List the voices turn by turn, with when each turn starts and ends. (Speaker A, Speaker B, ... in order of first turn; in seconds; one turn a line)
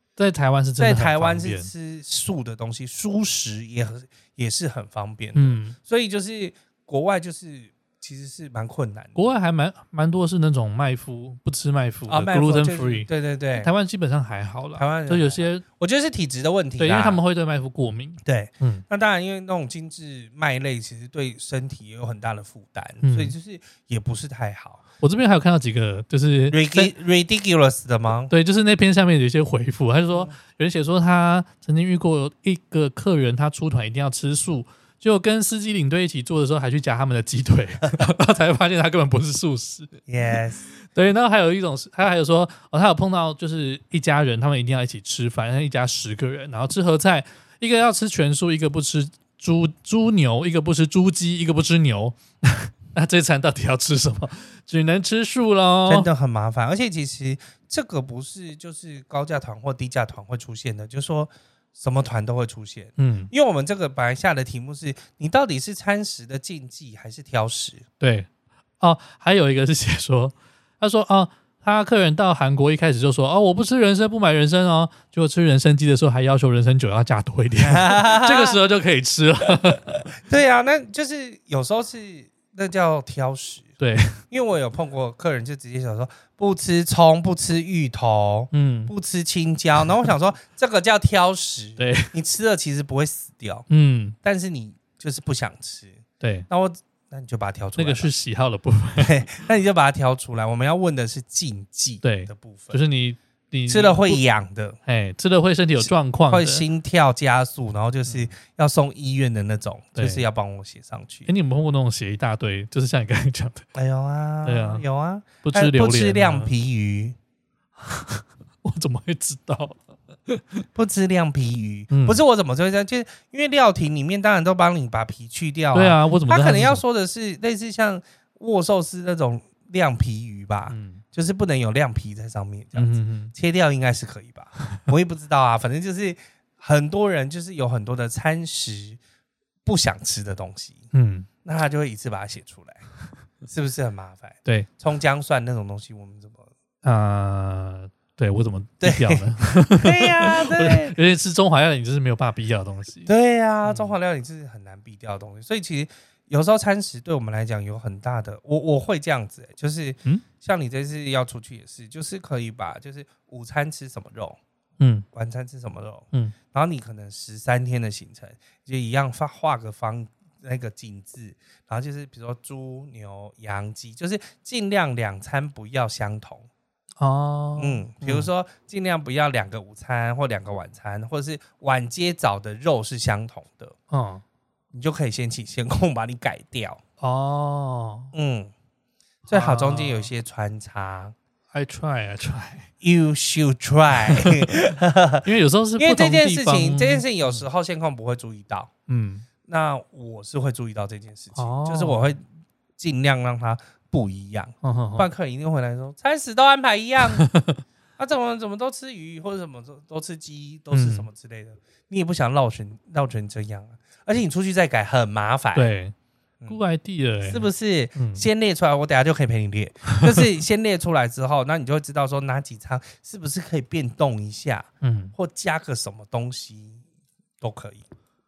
Speaker A: 0.2-1.7
Speaker B: 0.8-9.3
Speaker A: 5.3-5.8
Speaker A: 9.2-15.6
Speaker B: 12.1-13.7
Speaker B: 14.8-17.2
Speaker A: 16.8-18.8
Speaker B: 18.2-24.8
Speaker A: 23.0-23.4
Speaker A: 25.0-26.9
Speaker B: 26.5-28.3
Speaker A: 28.3-40.0
Speaker B: 40.1-40.7
Speaker A: 40.8-56.1
Speaker B: 55.9-67.8
Speaker A: 63.0-63.3
Speaker A: 68.0-68.3
Speaker A: 68.8-80.1
Speaker B: 77.6-78.6
Speaker B: 80.2-83.7
Speaker A: 83.8-84.2
Speaker B: 84.3-93.7
Speaker A: 88.5-88.9
Speaker A: 91.8-92.1
Speaker A: 93.7-94.2
Speaker B: 94.2-98.1
Speaker A: 96.2-96.5
Speaker A: 97.8-99.4
Speaker B: 99.0-102.8
Speaker A: 102.0-104.2
Speaker B: 103.7-104.8
Speaker A: 104.8-106.6
Speaker B: 105.8-111.3
Speaker A: 110.0-110.2
Speaker A: 111.2-113.7
Speaker B: 113.7-117.2
Speaker A: 114.4-114.8
Speaker A: 115.4-116.5
Speaker A: 117.8-120.6
Speaker B: 120.7-139.0
Speaker A: 121.9-122.2
Speaker A: 125.7-126.8
Speaker A: 130.7-131.0
Speaker A: 132.7-133.3
Speaker B: 139.7-140.8
Speaker A: 140.9-141.3
Speaker B: 141.4-142.8
Speaker B: 143.5-146.5
Speaker A: 146.8-153.1
Speaker B: 148.8-150.9
Speaker B: 153.1-164.4
Speaker A: 153.6-153.9
Speaker A: 164.8-165.1
Speaker B: 165.1-176.5
Speaker A: 177.0-178.3
Speaker B: 177.6-183.7
Speaker A: 183.9-184.2
Speaker B: 184.7-186.8
Speaker A: 187.0-188.1
Speaker B: 188.1-188.5
Speaker A: 189.3-190.1
Speaker B: 189.3-191.1
Speaker A: 191.5-192.7
Speaker B: 192.8-195.2
Speaker A: 195.2-197.4
Speaker B: 195.8-198.7
Speaker A: 198.9-199.2
Speaker B: 199.5-202.2
Speaker A: 201.3-202.2
Speaker B: 202.8-207.2
Speaker A: 204.6-205.1
Speaker A: 207.2-207.6
Speaker B: 208.0-215.7
Speaker A: 210.7-211.1
Speaker A: 215.5-215.9
Speaker A: 216.5-218.2
Speaker B: 217.2-226.8
Speaker A: 224.8-225.1
Speaker B: 227.4-227.8